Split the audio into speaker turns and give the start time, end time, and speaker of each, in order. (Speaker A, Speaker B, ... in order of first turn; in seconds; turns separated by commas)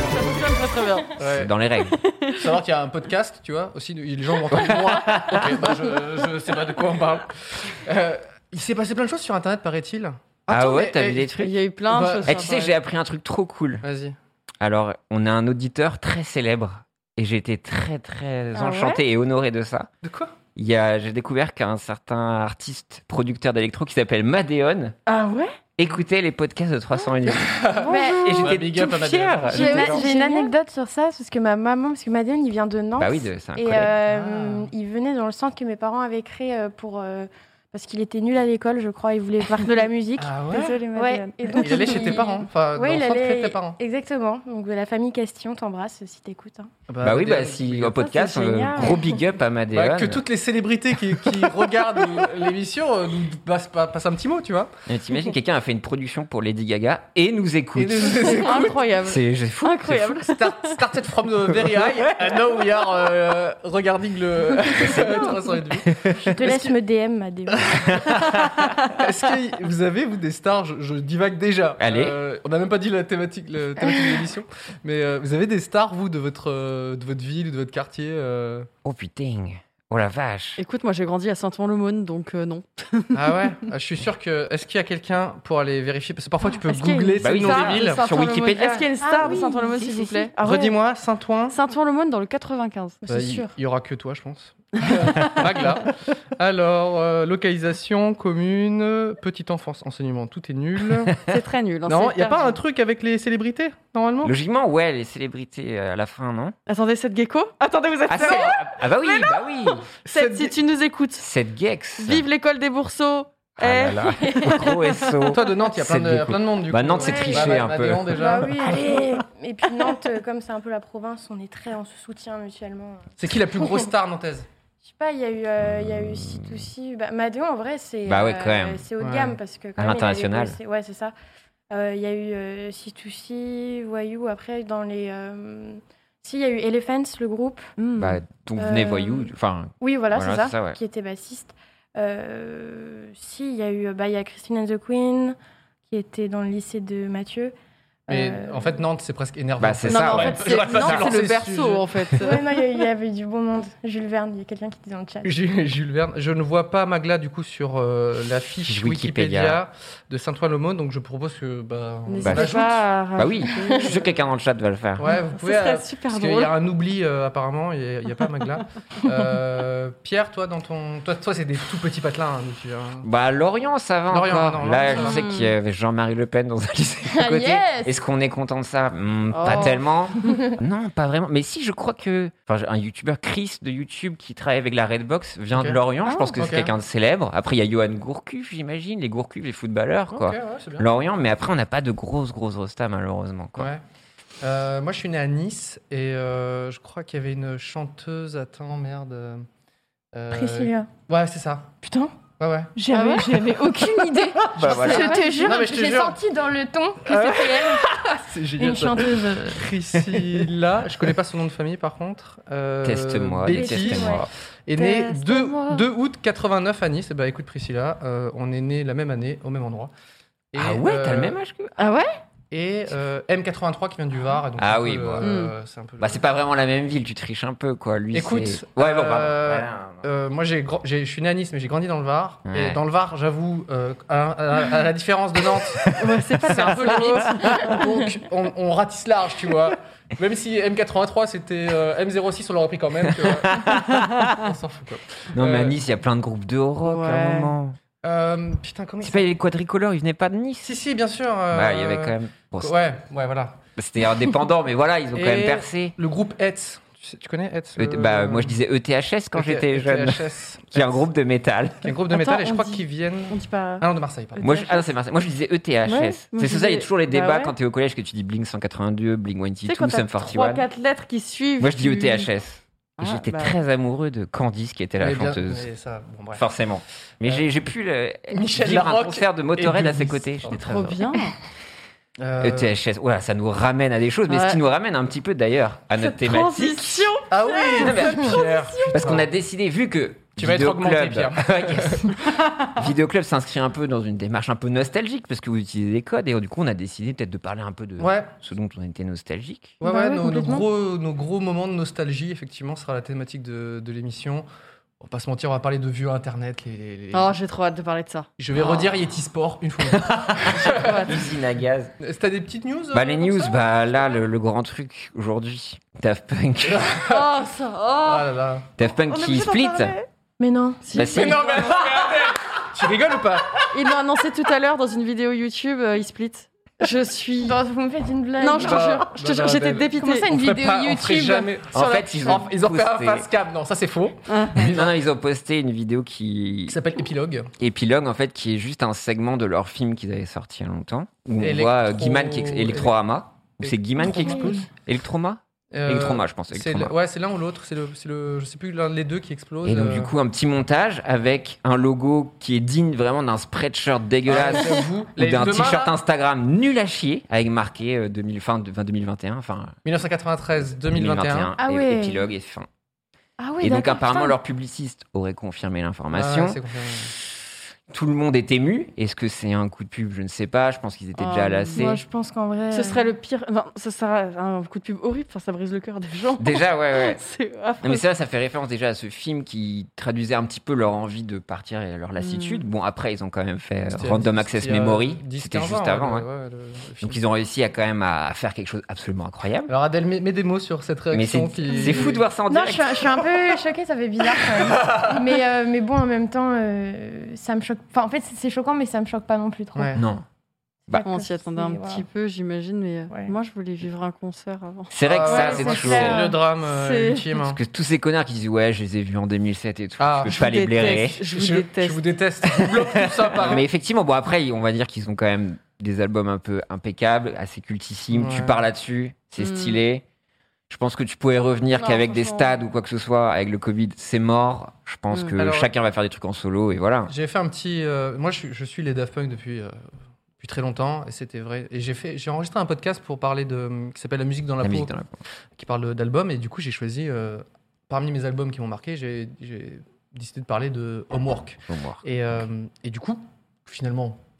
Speaker A: 0.1-1.1, Speaker B: 1.2-1.5, Speaker C: 1.2-2.0, Speaker B: 2.3-12.4, Speaker C: 4.5-5.5, Speaker A: 5.1-5.5, Speaker C: 10.5-11.5, Speaker A: 11.4-12.7, Speaker C: 12.2-13.8, Speaker B: 13.8-14.2, Speaker C: 14.6-19.9, Speaker A: 18.5-19.0, Speaker B: 20.0-20.3, Speaker C: 20.6-24.9, Speaker A: 25.1-25.5, Speaker C: 25.8-30.0, Speaker B: 27.3-30.0, Speaker A: 27.8-28.1, Speaker D: 27.9-28.6, Speaker D: 29.5-46.7, Speaker A: 29.9-30.5, Speaker C: 33.0-33.9, Speaker B: 34.0-34.7, Speaker A: 39.5-39.9, Speaker B: 40.2-40.8, Speaker A: 40.5-42.4, Speaker B: 41.6-43.8, Speaker B: 46.9-48.1, Speaker C: 47.0-50.2, Speaker D: 48.2-49.1, Speaker A: 48.2-48.8, Speaker B: 49.7-54.7, Speaker C: 54.9-60.2, Speaker B: 57.7-58.8, Speaker A: 58.2-60.8, Speaker B: 60.2-66.7, Speaker C: 64.7-66.1, Speaker D: 66.2-67.9, Speaker B: 67.6-78.7, Speaker C: 71.8-72.2, Speaker C: 78.8-80.6, Speaker A: 80.6-83.5, Speaker B: 83.1-88.0, Speaker D: 86.7-87.1, Speaker A: 86.9-90.8, Speaker C: 87.2-90.3, Speaker D: 89.0-89.8, Speaker B: 90.4-91.6, Speaker A: 91.5-93.0, Speaker D: 93.0-93.5, Speaker B: 93.1-101.2, Speaker A: 101.2-102.6, Speaker B: 101.9-104.3, Speaker C: 104.2-106.5, Speaker A: 106.7-111.3, Speaker C: 108.1-109.8, Speaker B: 110.1-110.5, Speaker C: 111.2-112.2, Speaker A: 112.0-115.4, Speaker C: 113.6-118.7, Speaker B: 115.3-118.5, Speaker D: 117.0-117.6, Speaker D: 118.1-123.8, Speaker B: 123.2-124.5, Speaker D: 124.8-131.1, Speaker C: 125.6-126.7, Speaker C: 128.1-128.8, Speaker B: 129.0-129.4, Speaker C: 129.8-130.6, Speaker D: 131.7-137.7, Speaker A: 137.8-138.2, Speaker C: 138.0-140.8, Speaker D: 138.6-145.3, Speaker D: 145.9-147.5, Speaker D: 148.1-148.8, Speaker B: 148.1-151.9, Speaker C: 149.6-151.1, Speaker A: 149.8-152.4, Speaker D: 152.2-155.3, Speaker B: 155.2-162.8, Speaker C: 158.6-159.6, Speaker A: 162.1-164.2, Speaker C: 162.2-162.5, Speaker C: 163.2-165.1, Speaker D: 163.6-163.9, Speaker B: 165.0-173.1, Speaker A: 165.0-166.6, Speaker C: 173.0-193.7, Speaker B: 174.1-175.2, Speaker A: 174.9-175.5, Speaker D: 177.1-177.9, Speaker A: 179.3-180.4, Speaker B: 185.5-185.8, Speaker A: 186.1-186.3, Speaker B: 186.3-186.7, Speaker B: 190.1-190.9, Speaker B: 193.6-193.8, Speaker B: 194.4-199.4, Speaker B: 200.1-201.7, Speaker D: 200.3-200.9, Speaker D: 201.8-202.1, Speaker B: 202.4-202.7, Speaker D: 202.8-207.8, Speaker A: 202.9-205.6, Speaker C: 204.6-205.3, Speaker B: 204.7-206.2, Speaker B: 207.1-219.9, Speaker D: 208.6-209.6, Speaker C: 212.8-214.3, Speaker D: 213.5-214.3, Speaker A: 214.8-215.4, Speaker D: 214.8-215.8, Speaker B: 220.5-221.3, Speaker C: 220.5-221.7, Speaker A: 221.8-222.1, Speaker B: 222.5-226.2, Speaker C: 224.6-225.3, Speaker A: 225.2-225.5, Speaker C: 226.0-230.1, Speaker B: 228.1-245.7, Speaker C: 232.5-232.8, Speaker A: 236.0-237.8, Speaker C: 243.0-244.3, Speaker C: 245.3-247.8, Speaker A: 246.8-247.5, Speaker B: 248.0-249.3, Speaker C: 249.0-250.7, Speaker B: 250.6-253.6, Speaker C: 251.5-252.7, Speaker C: 253.8-255.9, Speaker A: 255.2-255.7, Speaker B: 256.0-258.6, Speaker C: 257.8-261.9, Speaker B: 259.3-261.0, Speaker B: 261.8-264.6, Speaker A: 262.1-263.9, Speaker A: 264.4-264.8, Speaker C: 264.4-270.6, Speaker A: 265.9-267.5, Speaker A: 269.6-272.3, Speaker C: 271.6-275.7, Speaker A: 273.0-273.6, Speaker B: 275.0-276.4, Speaker C: 276.3-281.0, Speaker B: 278.3-280.6, Speaker A: 280.5-281.3, Speaker B: 282.2-282.7, Speaker C: 282.4-287.1, Speaker A: 284.3-284.6, Speaker A: 286.0-289.0, Speaker B: 287.3-289.3, Speaker C: 287.8-288.4, Speaker C: 288.9-292.2, Speaker B: 290.4-292.1, Speaker C: 292.7-299.8, Speaker B: 298.0-298.3, Speaker B: 299.8-304.4, Speaker D: 299.8-300.7, Speaker B: 305.0-307.3, Speaker A: 307.1-308.9, Speaker B: 308.4-311.2, Speaker C: 309.9-311.9, Speaker A: 310.5-311.2, Speaker B: 312.0-313.6, Speaker C: 312.9-316.9, Speaker B: 316.6-318.7, Speaker A: 317.1-320.1, Speaker C: 318.8-319.9, Speaker D: 320.4-320.8, Speaker A: 320.8-321.9, Speaker C: 320.9-322.0, Speaker B: 321.0-323.6, Speaker A: 323.7-327.6, Speaker D: 327.4-328.9, Speaker A: 328.4-330.3, Speaker B: 328.6-334.9, Speaker D: 330.0-331.5, Speaker C: 331.7-333.3, Speaker A: 332.1-332.4, Speaker A: 334.3-334.7, Speaker C: 334.5-336.8, Speaker B: 336.7-337.5, Speaker C: 337.6-346.9, Speaker B: 341.4-343.0, Speaker B: 343.6-344.6, Speaker D: 344.1-344.5, Speaker B: 345.7-350.1, Speaker C: 349.6-359.8, Speaker B: 354.2-355.9, Speaker B: 359.8-361.5, Speaker C: 360.9-362.7, Speaker D: 361.6-362.2, Speaker D: 363.4-364.4, Speaker C: 363.6-372.0, Speaker B: 366.1-367.1, Speaker D: 371.4-373.1, Speaker A: 372.7-378.0, Speaker C: 376.4-377.2, Speaker C: 377.8-386.2, Speaker A: 382.2-382.6, Speaker B: 383.9-387.2, Speaker C: 387.0-389.7, Speaker B: 389.7-392.2, Speaker C: 391.1-393.2, Speaker D: 392.5-400.0, Speaker B: 394.5-395.2, Speaker B: 399.7-400.0, Speaker C: 399.9-400.2, Speaker D: 400.9-402.0, Speaker A: 401.0-407.3, Speaker C: 404.9-406.3, Speaker B: 405.0-407.6, Speaker C: 407.4-411.2, Speaker B: 410.0-413.6, Speaker A: 410.2-412.1, Speaker C: 412.6-420.0, Speaker B: 418.1-418.6, Speaker A: 419.4-419.8, Speaker C: 420.7-427.1, Speaker A: 421.8-422.6, Speaker A: 425.1-425.4, Speaker B: 425.4-425.7, Speaker B: 427.1-429.7, Speaker B: 430.4-434.9, Speaker C: 434.6-435.2, Speaker B: 435.6-444.2, Speaker C: 441.7-442.0